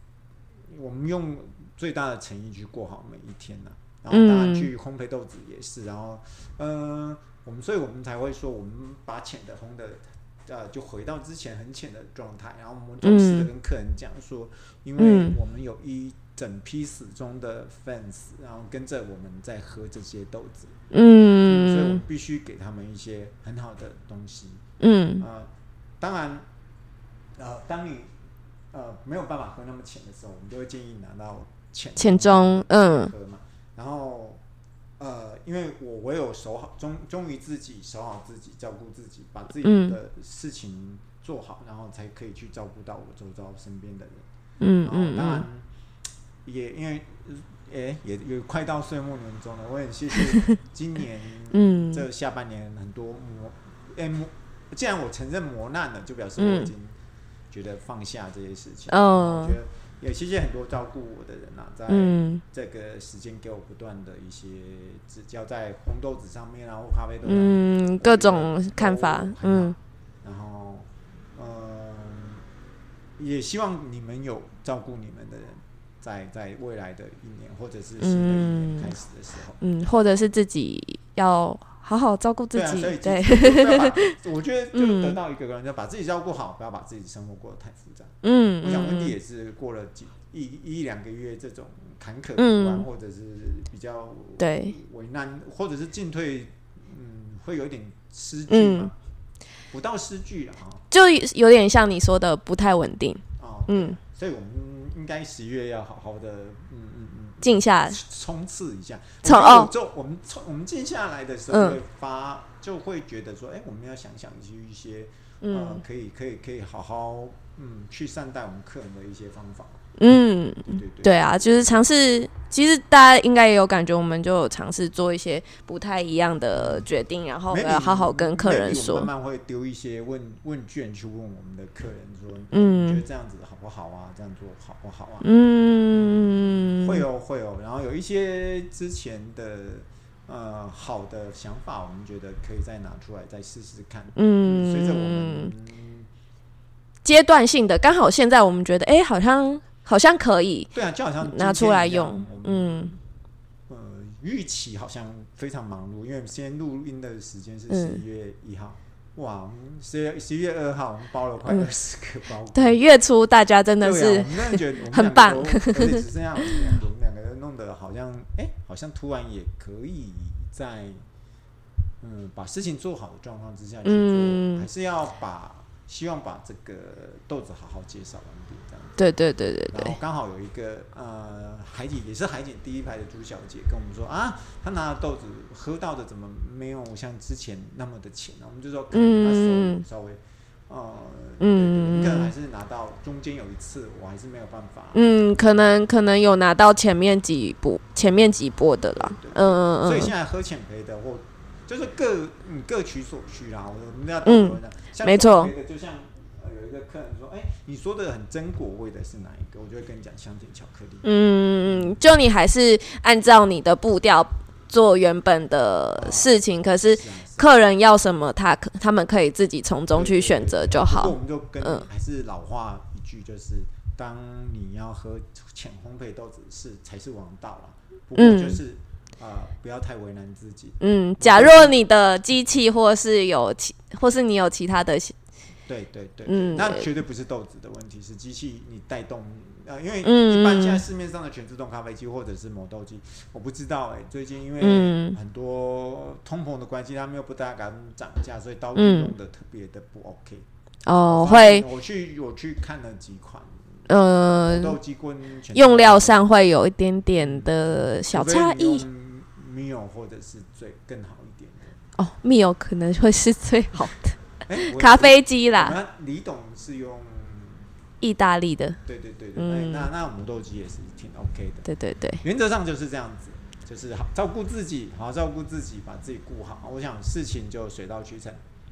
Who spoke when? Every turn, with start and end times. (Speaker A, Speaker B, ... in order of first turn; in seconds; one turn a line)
Speaker A: 0.7-20.7
Speaker B: 4.1-4.7
Speaker B: 13.0-13.5
Speaker B: 15.0-15.3
Speaker B: 20.9-22.0
Speaker A: 21.4-24.6
Speaker B: 24.8-25.2
Speaker A: 25.2-26.5
Speaker A: 27.4-28.1
Speaker A: 28.7-34.4
Speaker B: 32.0-33.1
Speaker A: 35.0-44.2
Speaker B: 39.6-40.0
Speaker B: 44.6-45.4
Speaker A: 44.8-45.7
Speaker A: 46.4-56.9
Speaker B: 51.5-52.0
Speaker B: 56.4-56.7
Speaker A: 57.5-72.4
Speaker B: 58.9-59.6
Speaker B: 61.9-62.4
Speaker B: 67.2-69.8
Speaker A: 73.2-79.6
Speaker B: 78.0-78.9
Speaker B: 79.6-84.1
Speaker A: 82.5-98.9
Speaker B: 84.7-85.2
Speaker B: 88.2-89.1
Speaker B: 92.4-92.8
Speaker B: 94.4-94.7
Speaker B: 98.5-98.9
Speaker A: 99.7-100.8
Speaker B: 100.9-104.0
Speaker A: 103.4-119.8
Speaker B: 107.4-108.0
Speaker B: 109.2-109.7
Speaker B: 111.5-111.8
Speaker B: 115.4-115.8
Speaker B: 120.0-129.1
Speaker A: 120.6-121.9
Speaker A: 126.5-126.9
Speaker A: 127.5-135.3
Speaker B: 132.5-133.0
Speaker B: 135.2-137.0
Speaker A: 135.9-136.2
Speaker A: 136.7-146.1
Speaker B: 144.2-145.5
Speaker B: 147.0-152.9
Speaker A: 150.7-153.0
Speaker A: 153.7-162.8
Speaker B: 157.7-158.0
Speaker B: 162.5-166.6
Speaker A: 163.8-171.0
Speaker A: 172.0-179.0
Speaker B: 173.8-174.7
Speaker B: 179.0-179.9
Speaker A: 179.7-195.7
Speaker B: 188.9-189.8
Speaker B: 191.4-192.3
Speaker B: 194.9-200.1
Speaker A: 198.9-211.1
Speaker B: 204.2-205.5
Speaker B: 211.0-221.8
Speaker A: 211.6-212.0
Speaker A: 216.0-217.5
Speaker A: 219.9-231.8
Speaker B: 228.2-228.6
Speaker B: 230.8-235.1
Speaker A: 235.7-250.4
Speaker B: 236.2-236.8
Speaker B: 240.0-240.8
Speaker B: 244.6-245.2
Speaker B: 248.8-249.1
Speaker B: 250.8-251.7
Speaker A: 251.1-256.2
Speaker B: 253.9-254.8
Speaker B: 255.5-258.8
Speaker A: 257.2-261.8
Speaker B: 262.0-265.8
Speaker A: 264.5-267.7
Speaker B: 268.0-268.8
Speaker A: 268.9-271.6
Speaker B: 269.4-269.9
Speaker B: 271.7-272.2
Speaker A: 272.2-278.4